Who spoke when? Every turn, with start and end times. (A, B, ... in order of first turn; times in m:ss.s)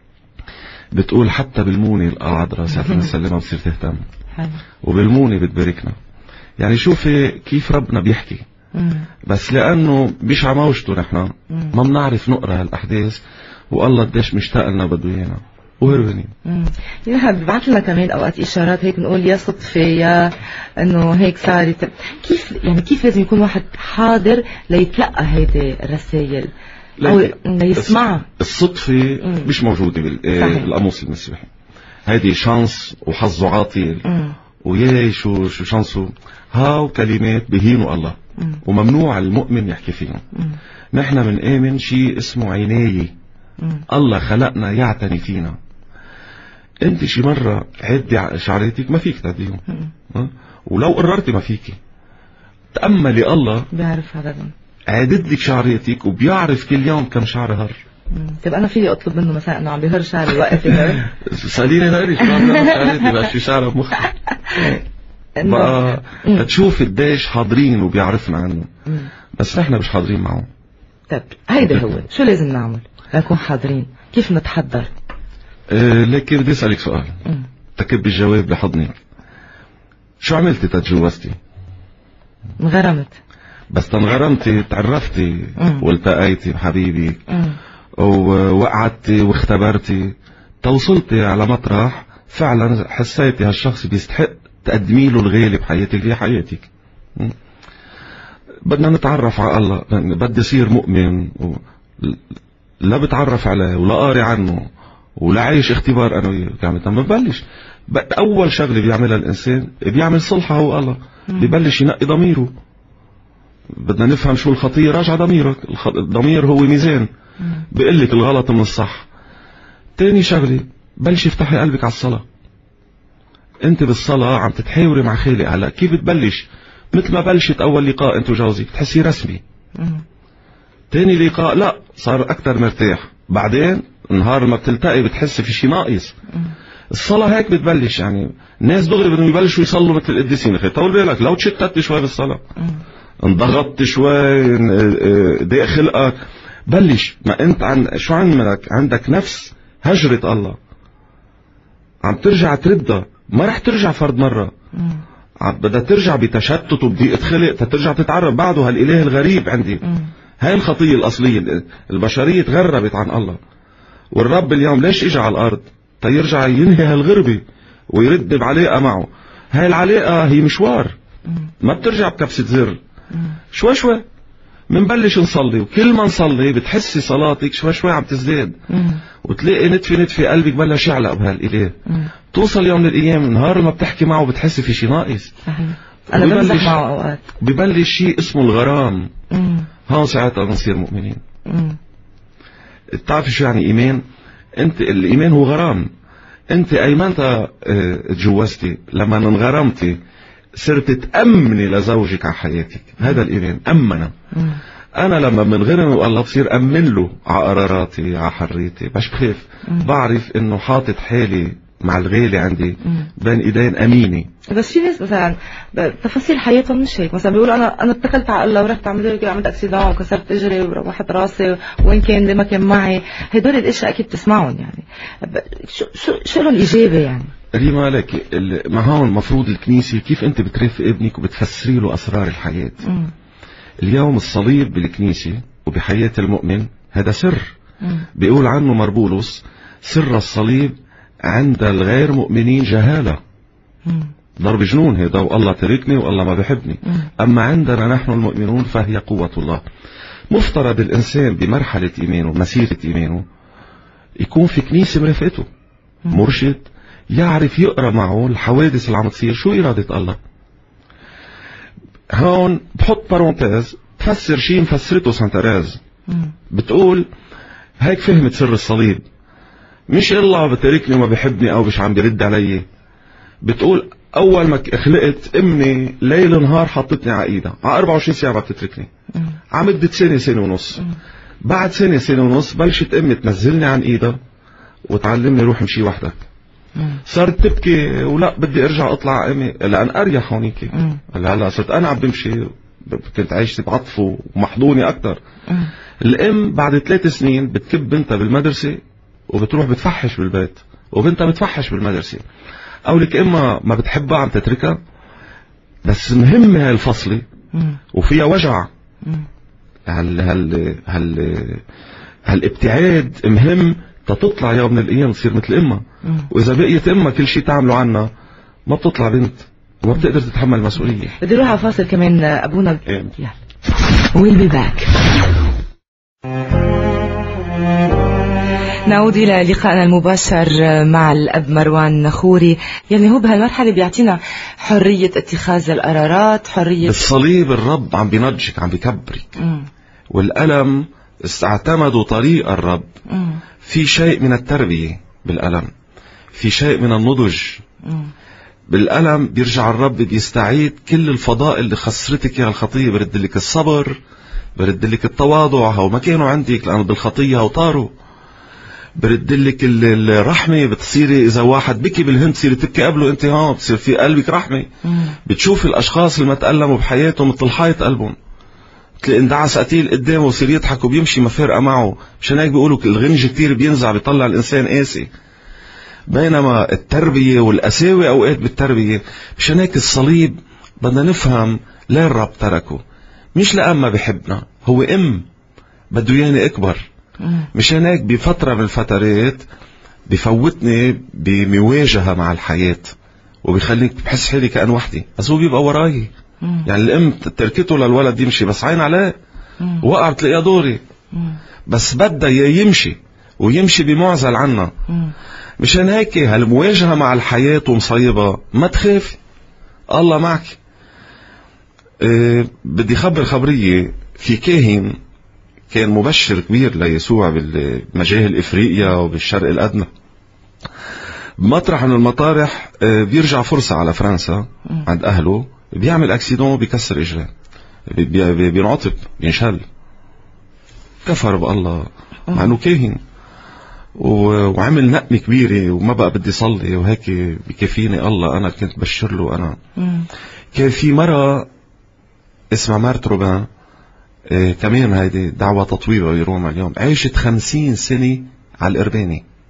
0:00.9-0:04.0 A
0:02.8-0:03.1 B
0:04.8-0:06.0 A
0:06.6-0:08.4 A
0:08.8-0:09.1 B
0:09.2-0:16.3 A
0:16.4-0:26.5 B
0:27.0-0:31.5 A
0:27.0-0:28.3 B
0:29.2-0:29.5 B
0:30.4-0:30.7 B
0:32.1-0:34.1 A
0:34.0-0:34.4 B
0:34.6-0:40.2 A
0:40.9-0:43.1 A
0:43.9-0:45.6 A
0:46.8-0:51.8 A
0:52.7-0:53.7 A
0:53.7-0:54.5 B
0:54.9-0:57.8 A
0:58.1-1:01.1 B
1:00.7-1:04.8 A
1:02.5-1:02.9 B
1:05.4-1:06.5 B
1:05.4-1:08.7 A
1:09.3-1:10.5 A
1:11.1-1:14.9 B
1:15.7-1:17.2 A
1:17.8-1:19.0 A
1:20.2-1:21.4 A
1:22.6-1:23.2 B
1:23.7-1:27.2 A
1:25.6-1:25.8 B
1:27.3-1:27.6 B
1:28.0-1:37.4 A
1:38.7-1:42.2 A
1:42.8-1:44.7 A
1:45.2-1:52.5 A
1:53.7-1:57.1 A
1:57.7-1:59.1 A
2:00.0-2:02.2 A
2:03.6-2:09.4 A
2:09.8-2:10.0 B
2:10.9-2:16.2 A
2:16.9-2:22.4 A
2:23.2-2:30.6 A
2:32.0-2:34.5 A
2:34.8-2:35.0 B
2:35.4-2:39.8 A
2:40.4-2:43.4 A
2:44.1-2:51.0 A
2:51.6-2:52.8 A
2:53.5-2:54.0 A
2:54.7-2:58.6 A
2:58.7-2:59.0 B
2:59.2-3:01.8 A
3:02.3-3:05.3 A
3:05.5-3:07.2 B
3:06.1-3:06.8 A
3:07.4-3:09.1 A
3:09.3-3:09.7 B
3:09.9-3:11.2 A
3:11.5-3:11.8 B
3:12.9-3:14.0 A
3:14.6-3:15.9 A
3:16.5-3:20.0 A
3:20.6-3:24.1 A
3:24.3-3:24.6 B
3:25.0-3:34.3 A
3:34.5-3:47.3 B
3:47.5-3:52.8 A
3:52.8-3:53.1 B
3:53.8-3:57.5 A
3:58.2-4:03.2 A
4:03.9-4:04.1 B
4:04.4-4:09.6 A
4:10.3-4:13.3 A
4:14.2-4:15.5 A
4:16.1-4:20.2 A
4:22.1-4:25.8 A
4:26.5-4:27.1 A
4:27.8-4:29.0 A
4:29.9-4:32.6 A
4:33.4-4:38.9 A
4:39.5-4:40.9 A
4:41.4-4:44.2 A
4:44.9-4:46.2 A
4:47.1-4:55.2 A
4:50.7-4:51.0 B
4:56.0-5:02.2 A
5:02.9-5:04.8 A
5:05.8-5:07.2 A
5:07.5-5:07.8 B
5:07.9-5:08.7 A
5:09.9-5:11.6 A
5:12.3-5:18.1 A
5:16.0-5:16.3 B
5:18.7-5:21.2 A
5:21.2-5:23.4 B
5:24.0-5:25.1 B
5:28.8-5:37.0 B
5:36.8-5:39.4 A
5:39.4-5:39.7 B
5:40.1-5:42.9 A
5:43.1-5:43.4 B
5:43.6-5:45.7 A
5:46.3-5:47.6 A
5:48.7-5:54.0 A
5:54.6-5:57.9 A
5:59.0-6:04.7 A
6:04.9-6:05.2 B
6:05.3-6:08.2 A
6:09.0-6:15.1 A
6:16.1-6:22.8 A
6:23.4-6:25.3 A
6:25.9-6:26.9 A
6:27.2-6:27.5 B
6:27.5-6:29.4 A
6:30.1-6:36.1 A
6:36.7-6:39.1 A
6:39.8-6:40.8 A
6:41.7-6:44.7 A
6:45.6-6:49.2 A
6:49.9-6:50.6 A
6:52.0-6:55.0 A
6:55.7-6:59.9 A
7:01.4-7:07.3 A
7:07.9-7:09.6 A
7:11.0-7:13.0 A
7:14.0-7:19.6 A
7:19.8-7:20.1 B
7:20.5-7:21.5 A
7:22.5-7:23.5 A
7:24.3-7:29.2 A